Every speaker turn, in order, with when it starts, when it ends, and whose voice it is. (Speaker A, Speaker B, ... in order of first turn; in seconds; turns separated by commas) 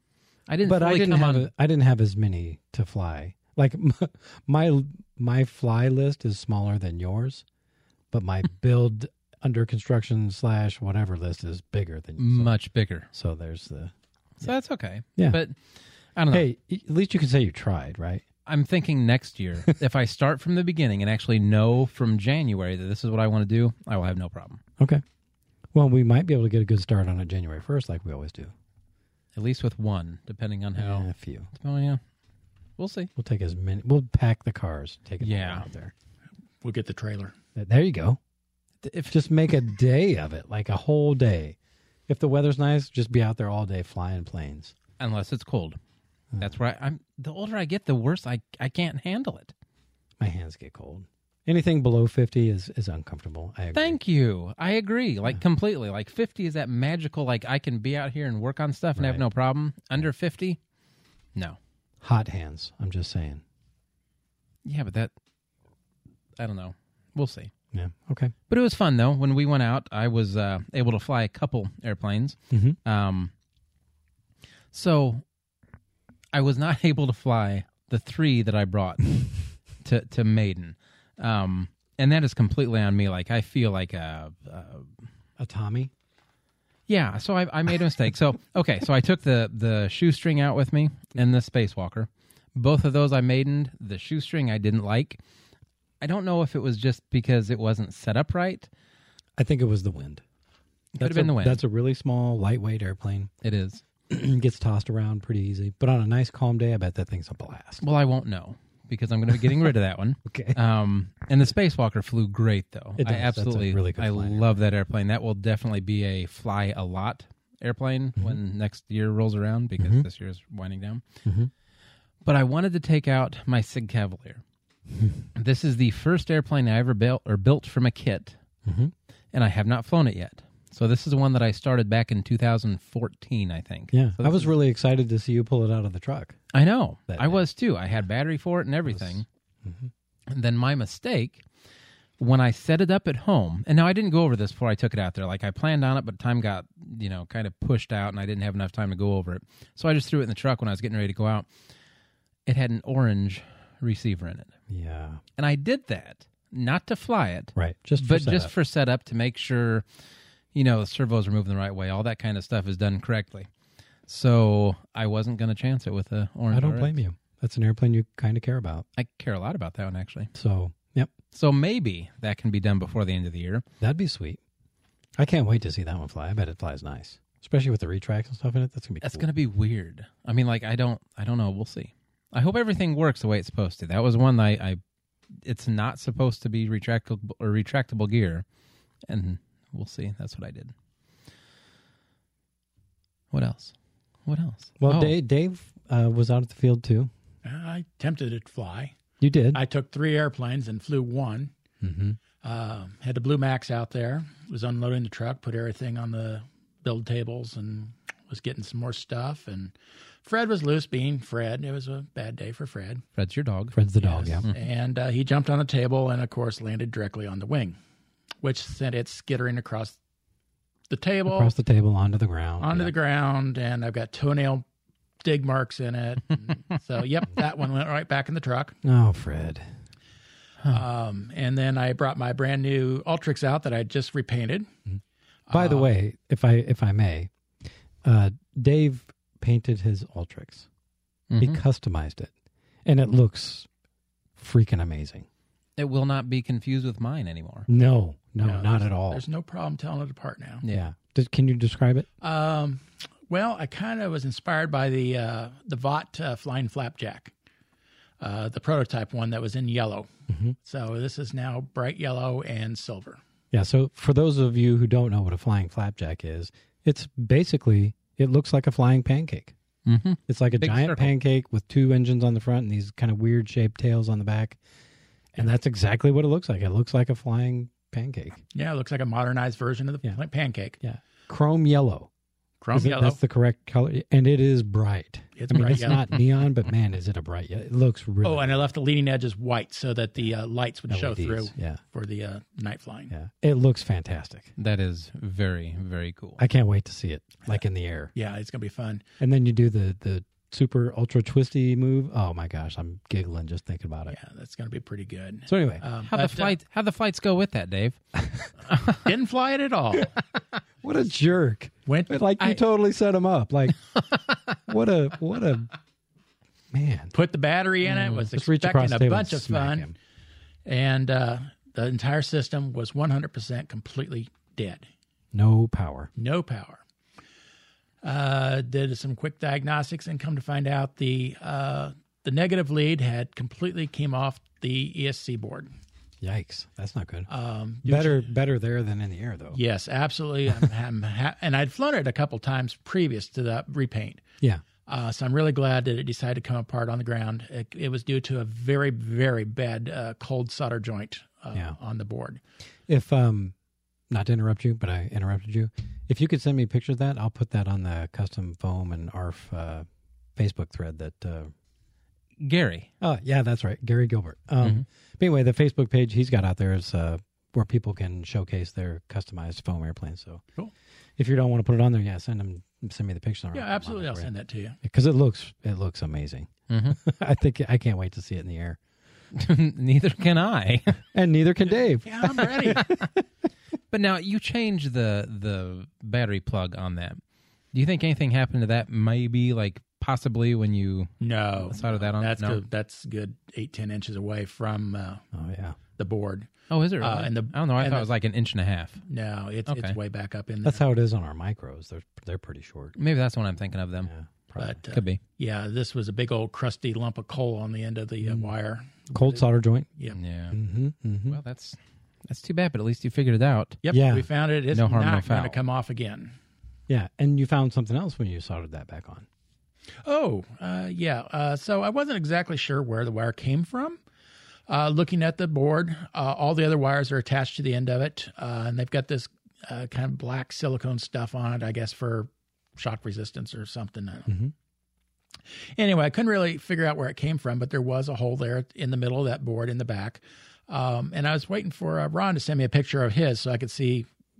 Speaker A: 0.5-1.5, Speaker B: 0.6-7.4, Speaker B: 8.1-12.5, Speaker A: 12.2-13.1, Speaker B: 13.1-13.9, Speaker A: 14.4-15.5, Speaker A: 16.1-16.5, Speaker B: 16.3-18.2, Speaker A: 18.4-24.6, Speaker B: 25.7-28.5, Speaker A: 29.3-32.0, Speaker B: 30.8-31.5, Speaker A: 32.8-33.1, Speaker B: 33.2-35.9, Speaker A: 35.2-35.7, Speaker C: 36.6-37.3, Speaker B: 37.5-38.2, Speaker A: 38.8-39.2, Speaker B: 39.1-41.6, Speaker B: 42.1-44.7, Speaker A: 45.0-45.8, Speaker A: 46.4-49.5, Speaker B: 50.2-54.0, Speaker A: 53.7-60.6, Speaker B: 59.0-59.2, Speaker B: 62.0-63.4, Speaker A: 64.6-65.1, Speaker A: 66.4-67.5, Speaker B: 67.7-68.3, Speaker A: 68.5-73.3, Speaker B: 72.5-72.8, Speaker A: 74.7-75.2, Speaker A: 76.3-79.3, Speaker A: 79.8-84.9, Speaker B: 85.4-85.9, Speaker A: 86.9-95.2, Speaker A: 96.0-98.7, Speaker B: 99.4-100.2, Speaker A: 100.9-101.6, Speaker B: 101.0-103.3, Speaker A: 103.4-103.8, Speaker B: 104.1-107.8, Speaker A: 107.8-121.0, Speaker B: 110.2-110.6, Speaker B: 113.0-114.5, Speaker B: 119.8-120.0, Speaker B: 121.2-121.5, Speaker A: 122.2-124.4, Speaker A: 125.3-128.4, Speaker B: 128.6-128.9, Speaker A: 129.3-134.5, Speaker B: 133.9-136.4, Speaker A: 136.5-139.2, Speaker B: 137.1-137.4, Speaker B: 138.9-139.9, Speaker A: 140.3-141.4, Speaker A: 142.2-151.5, Speaker A: 152.4-154.5, Speaker B: 154.7-155.2, Speaker A: 155.4-159.8, Speaker B: 157.5-158.5, Speaker A: 160.5-163.5, Speaker A: 164.1-167.0, Speaker B: 166.5-168.8, Speaker A: 168.9-170.3, Speaker B: 170.3-171.1, Speaker A: 171.3-173.6, Speaker B: 173.8-174.4, Speaker B: 175.2-179.3, Speaker A: 179.0-184.8, Speaker A: 185.4-188.4, Speaker A: 189.1-190.7, Speaker A: 193.3-193.7, Speaker A: 194.2-195.1, Speaker B: 194.8-197.1, Speaker C: 197.4-199.0, Speaker B: 199.2-199.6, Speaker C: 199.5-201.5, Speaker B: 201.8-202.2, Speaker C: 202.4-213.0, Speaker A: 213.2-213.8, Speaker B: 213.7-214.4, Speaker C: 214.0-217.8, Speaker C: 218.4-219.9, Speaker C: 220.9-221.5, Speaker B: 221.3-222.9, Speaker C: 222.6-224.6, Speaker C: 225.2-228.8, Speaker B: 228.8-229.7, Speaker C: 230.7-234.7, Speaker B: 234.9-237.3, Speaker C: 235.5-235.9, Speaker B: 238.0-240.7, Speaker A: 241.3-241.6, Speaker B: 241.4-242.3, Speaker B: 242.8-243.7, Speaker B: 244.4-245.2, Speaker A: 245.8-247.7, Speaker B: 247.7-249.2, Speaker C: 248.4-250.6, Speaker B: 250.7-252.1, Speaker C: 252.2-257.3, Speaker C: 258.2-260.1, Speaker B: 260.3-260.5, Speaker C: 260.6-263.2, Speaker B: 263.5-269.5, Speaker A: 269.9-271.1, Speaker B: 270.3-274.6, Speaker B: 275.3-278.4, Speaker C: 278.5-280.8, Speaker B: 280.8-282.1, Speaker C: 282.6-283.2, Speaker B: 282.7-288.6, Speaker C: 285.4-286.1, Speaker C: 288.2-293.1, Speaker B: 290.9-291.8, Speaker B: 293.1-294.5, Speaker A: 294.6-296.4, Speaker B: 296.4-298.1, Speaker C: 298.1-299.0, Speaker B: 299.2-304.2, Speaker C: 304.1-306.6, Speaker B: 305.5-305.8, Speaker A: 306.0-308.0, Speaker A: 308.7-309.0, Speaker C: 308.9-310.2, Speaker B: 310.8-314.0, Speaker C: 311.9-312.6, Speaker B: 314.6-315.7, Speaker B: 316.7-317.1, Speaker C: 317.1-319.9, Speaker B: 318.3-319.9, Speaker C: 320.6-324.9, Speaker B: 325.3-326.1, Speaker C: 326.2-326.8, Speaker C: 328.0-335.7, Speaker B: 336.2-337.3, Speaker C: 337.3-338.2, Speaker B: 337.8-339.6, Speaker C: 339.5-344.2, Speaker C: 344.9-352.4, Speaker B: 352.9-353.5, Speaker B: 354.1-361.5, Speaker A: 362.4-362.9, Speaker B: 363.0-370.4, Speaker B: 371.2-374.3, Speaker C: 373.5-374.8, Speaker B: 374.8-378.8, Speaker A: 376.7-377.0, Speaker A: 379.3-381.0, Speaker B: 381.1-383.2, Speaker C: 382.0-382.9, Speaker A: 383.9-387.2, Speaker A: 387.7-392.6, Speaker C: 391.2-395.2, Speaker B: 395.3-395.8, Speaker C: 396.0-398.1, Speaker A: 396.7-399.0, Speaker C: 399.1-400.8, Speaker A: 399.7-399.9, Speaker B: 400.6-402.9, Speaker A: 403.0-404.1, Speaker B: 404.0-404.8, Speaker C: 404.6-409.4, Speaker A: 404.9-405.2, Speaker B: 408.2-408.5, Speaker B: 409.1-409.9, Speaker A: 410.1-410.6, Speaker B: 410.5-411.4, Speaker A: 411.3-413.8, Speaker C: 413.8-416.3, Speaker B: 413.9-414.2, Speaker A: 414.7-415.6, Speaker B: 416.9-419.2, Speaker C: 420.0-424.0, Speaker C: 424.7-434.3, Speaker C: 435.8-444.1